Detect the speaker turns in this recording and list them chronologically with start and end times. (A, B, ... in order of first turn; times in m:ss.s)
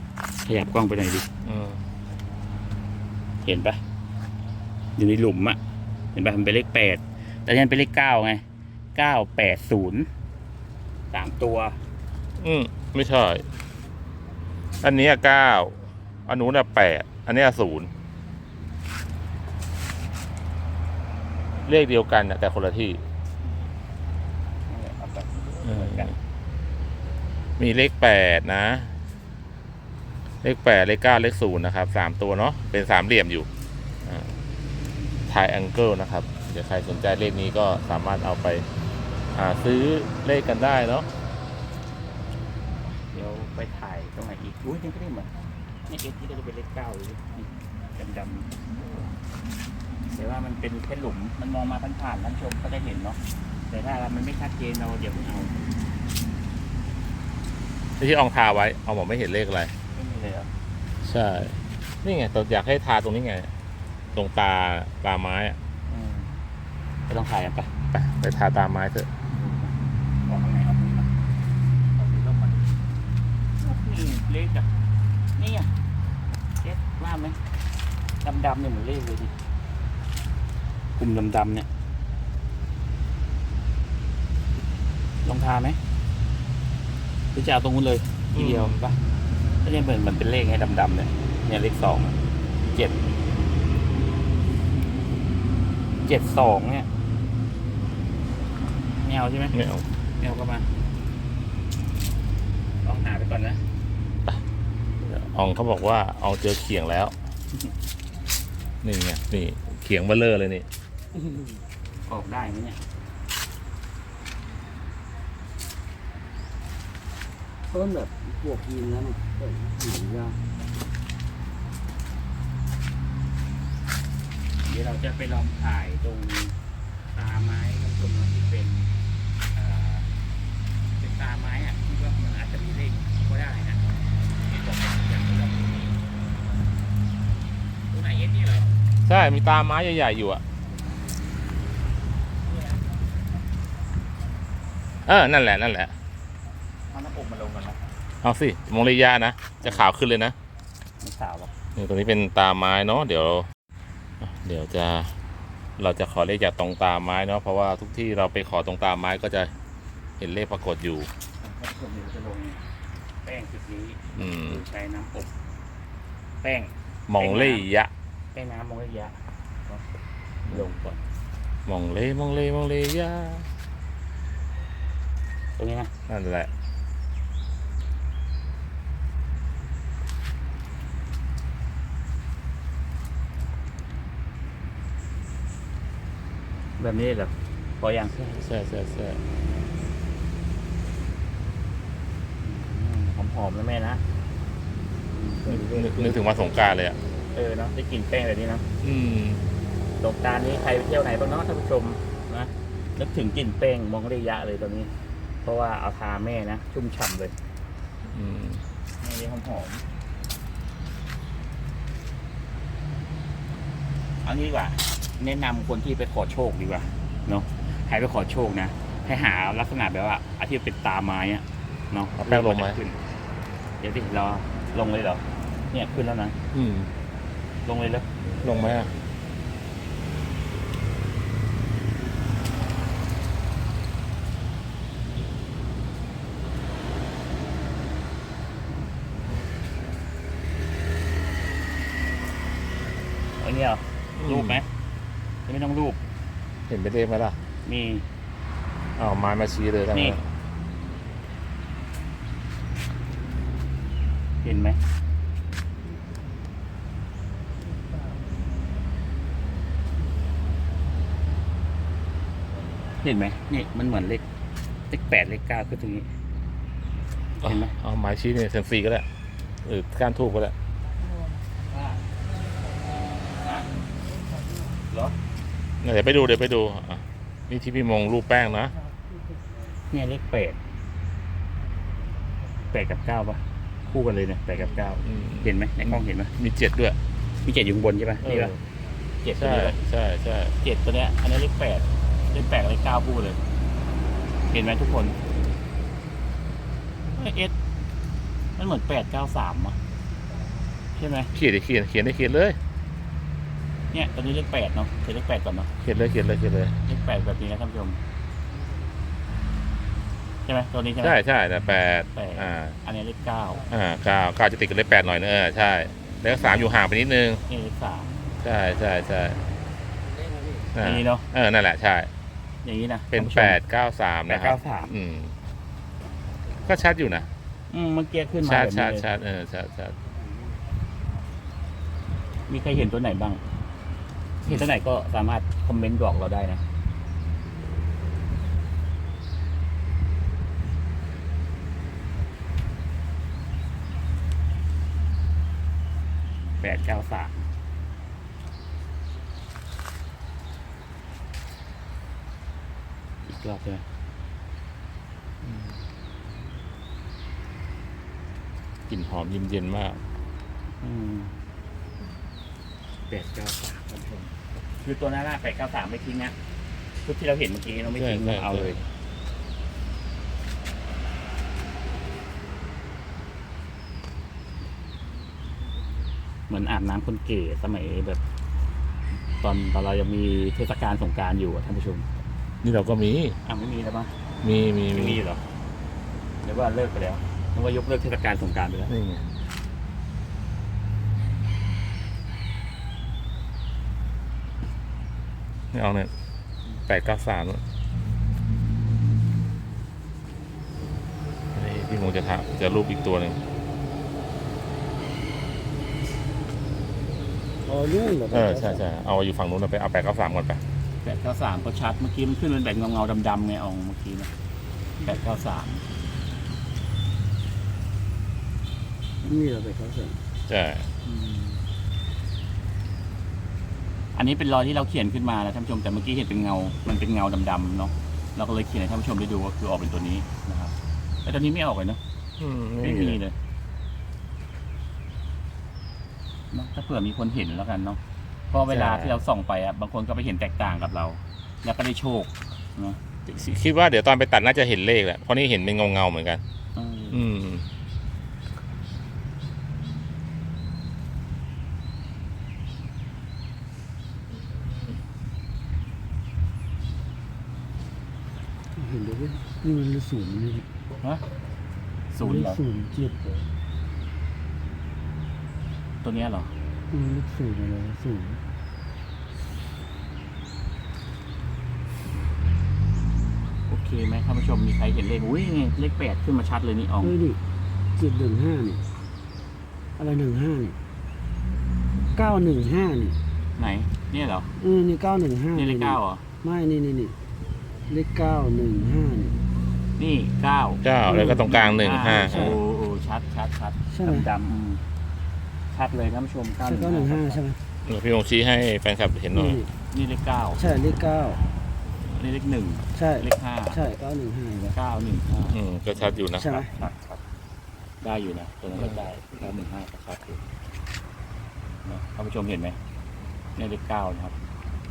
0:00.4-0:01.3 A
0:01.4-0:01.8 B
0:03.4-0:03.8 A
0:05.0-0:05.6 A
0:06.1-0:08.4 A
0:08.9-0:10.1 A
0:11.1-0:11.8 A
0:12.4-0:13.4 B
0:14.8-0:17.9 B
0:21.6-0:23.0 B
0:24.7-0:26.1 A
0:25.6-0:26.1 B
0:27.6-0:28.9 B
0:30.4-0:33.5 B
0:34.0-0:34.3 B
0:35.3-0:38.7 B
0:39.3-0:41.1 B
0:43.1-0:45.3 A
0:45.9-0:48.5 A
0:50.1-0:55.6 A
0:58.0-0:59.7 B
0:59.9-1:00.5 A
1:01.0-1:03.5 B
1:04.1-1:05.6 B
1:05.9-1:06.3 A
1:07.1-1:07.7 A
1:07.9-1:09.1 B
1:09.3-1:11.1 A
1:12.0-1:12.5 A
1:13.6-1:14.7 A
1:15.4-1:15.7 A
1:16.6-1:17.4 A
1:18.2-1:19.3 A
1:21.0-1:21.7 A
1:25.2-1:25.8 A
1:27.3-1:28.9 A
1:28.3-1:28.8 B
1:29.6-1:32.2 A
1:32.7-1:33.0 A
1:36.0-1:36.9 A
1:38.8-1:39.6 A
1:39.5-1:39.8 B
1:40.2-1:40.7 A
1:42.8-1:43.6 A
1:45.0-1:47.2 B
1:48.8-1:50.6 B
1:51.2-1:51.5 C
1:52.1-1:52.8 A
1:57.7-2:00.4 C
2:04.6-2:06.5 A
2:07.1-2:08.9 A
2:09.5-2:10.1 A
2:11.0-2:13.9 A
2:14.4-2:15.9 A
2:17.9-2:18.7 A
2:19.0-2:20.4 B
2:25.0-2:25.9 B
2:26.9-2:27.8 A
2:28.2-2:30.3 B
2:29.6-2:29.9 A
2:31.0-2:31.5 A
2:31.8-2:33.5 B
2:34.2-2:35.1 B
2:35.8-2:39.5 B
2:40.2-2:41.1 B
2:41.4-2:42.7 A
2:43.2-2:45.3 A
2:44.1-2:44.6 B
2:46.4-2:47.6 A
2:47.1-2:47.9 B
2:48.3-2:49.8 A
2:50.5-2:51.0 A
2:51.6-2:53.5 B
2:55.6-2:55.9 A
2:56.1-2:56.5 B
3:06.8-3:08.1 A
3:08.1-3:09.2 B
3:12.4-3:14.0 A
3:15.1-3:16.2 A
3:15.5-3:17.0 B
3:17.3-3:18.6 A
3:18.8-3:19.4 B
3:20.0-3:24.9 A
3:25.4-3:27.3 A
3:28.1-3:28.6 B
3:29.0-3:29.8 A
3:34.2-3:43.0 A
3:42.1-3:42.8 B
3:43.8-3:46.4 A
3:46.5-3:46.9 B
3:47.6-3:48.1 A
3:48.4-3:48.9 B
4:03.4-4:04.7 A
4:04.2-4:04.6 B
4:05.5-4:06.0 A
4:06.7-4:07.4 B
4:07.6-4:08.0 A
4:09.0-4:10.2 B
4:09.9-4:10.2 A
4:14.4-4:14.8 A
4:23.0-4:24.2 A
4:24.9-4:26.1 A
4:27.4-4:29.0 B
4:27.4-4:27.7 A
4:29.6-4:30.5 B
4:31.6-4:32.0 A
4:33.4-4:33.7 A
4:34.9-4:35.2 A
4:35.8-4:38.7 B
4:39.9-4:40.6 A
4:42.7-4:46.3 A
4:45.0-4:45.5 B
4:46.4-4:47.0 B
4:47.4-4:48.5 A
4:48.2-4:48.6 B
4:49.2-4:49.8 A
4:49.4-4:50.6 B
4:50.6-4:53.4 A
4:54.5-4:55.2 A
4:57.1-4:57.6 A
4:58.6-4:59.8 A
5:01.0-5:01.3 A
5:01.3-5:02.6 B
5:03.9-5:05.7 A
5:05.8-5:06.8 B
5:06.8-5:08.0 A
5:10.4-5:11.2 A
5:11.0-5:12.8 B
5:12.1-5:13.6 A
5:13.7-5:17.4 B
5:17.5-5:18.1 A
5:18.4-5:19.4 B
5:20.7-5:22.1 B
5:20.8-5:21.2 A
5:22.6-5:23.6 A
5:23.1-5:25.3 B
5:24.3-5:24.9 A
5:26.6-5:27.3 B
5:27.7-5:29.0 A
5:28.4-5:30.0 B
5:32.5-5:33.4 A
5:34.4-5:34.7 B
5:34.4-5:36.6 A
5:46.6-5:47.4 A
5:53.2-5:53.8 A
5:55.4-5:55.8 B
5:58.9-6:00.0 B
6:00.8-6:01.3 A
6:03.1-6:06.3 A
6:07.0-6:08.8 A
6:07.9-6:08.8 B
6:16.5-6:18.2 A
6:19.4-6:22.0 A
6:22.6-6:23.4 B
6:23.4-6:24.1 A
6:24.4-6:25.2 B
6:24.9-6:25.4 A
6:26.4-6:28.9 A
6:28.9-6:29.4 B
6:35.7-6:36.1 B
6:36.8-6:37.6 B
6:41.5-6:43.4 B
6:47.6-6:48.8 C
6:48.3-6:50.6 B
6:51.0-6:54.3 A
6:55.0-6:55.8 A
6:59.2-7:00.2 C
7:00.5-7:00.9 B
7:01.0-7:01.6 A
7:04.1-7:12.0 A
7:12.4-7:13.2 B
7:12.8-7:13.3 A
7:16.5-7:18.0 A
7:18.5-7:23.0 A
7:18.7-7:19.2 B
7:23.2-7:26.4 B
7:26.7-7:27.2 A
7:27.1-7:27.7 B
7:38.7-7:40.7 C
7:42.1-7:42.6 A
7:42.2-7:43.5 C
7:46.0-7:46.5 A
7:46.9-7:48.4 C
7:53.7-7:57.1 A
7:57.0-7:57.4 C
7:58.0-7:58.8 C
8:00.0-8:00.8 C
8:02.1-8:03.2 C
8:03.6-8:04.5 A
8:04.6-8:07.2 C
8:05.5-8:06.2 A
8:07.9-8:09.4 C
8:10.0-8:14.8 A
8:10.8-8:12.5 B
8:11.1-8:11.5 C
8:12.1-8:12.6 C
8:13.9-8:14.3 C
8:15.7-8:17.4 A
8:16.6-8:17.6 C
8:17.8-8:19.6 B
8:19.3-8:19.7 C
8:19.9-8:20.6 A
8:20.6-8:21.4 C
8:22.1-8:23.8 A
8:22.9-8:24.8 C
8:24.6-8:26.2 A
8:25.5-8:26.6 B
8:26.3-8:26.7 C
8:26.7-8:27.2 A
8:28.0-8:30.4 A
8:28.8-8:29.0 B
8:31.8-8:32.8 A
8:33.6-8:34.3 A